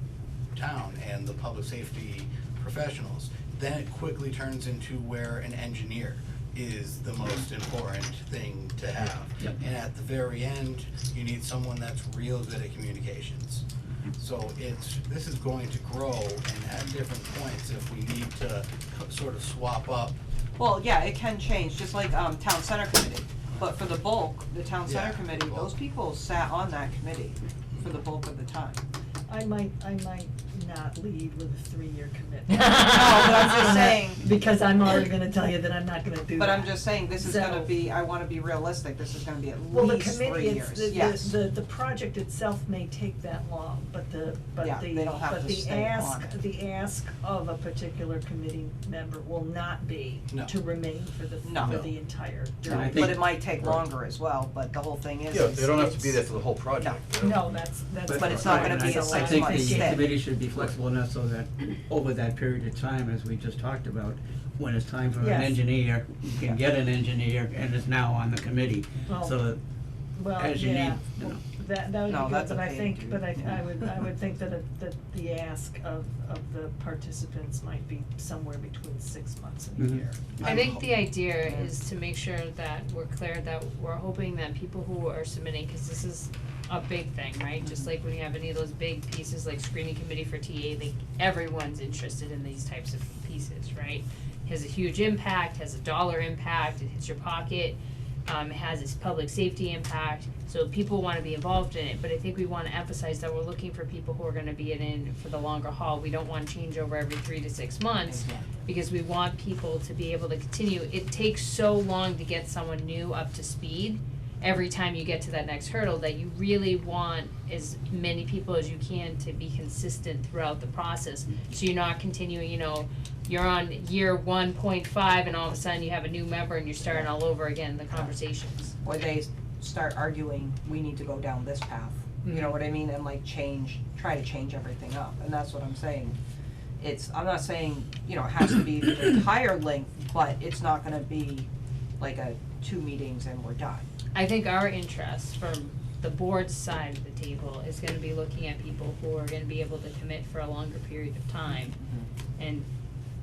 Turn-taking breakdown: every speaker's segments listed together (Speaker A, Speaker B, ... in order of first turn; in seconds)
Speaker A: 0.6-13.6, 14.1-20.2, 24.9-25.7, 80.4-80.9
Speaker B: 20.6-28.8, 32.9-34.2, 36.4-41.4, 44.6-46.4, 51.4-51.9, 52.6-56.2, 58.1-60.1, 72.0-73.5, 108.0-108.6, 126.8-127.1, 128.8-136.2, 136.8-141.5, 142.0-143.8, 151.8-152.1
Speaker C: 29.3-37.7, 39.7-53.2, 57.1-60.0, 65.2-65.6, 69.1-69.4, 70.2-80.4
Speaker D: 52.6-53.4, 58.0-69.6, 70.3-71.4
Speaker E: 55.3-57.6, 58.3-58.6
Speaker F: 80.4-128.8, 144.1-151.8, 152.4-152.7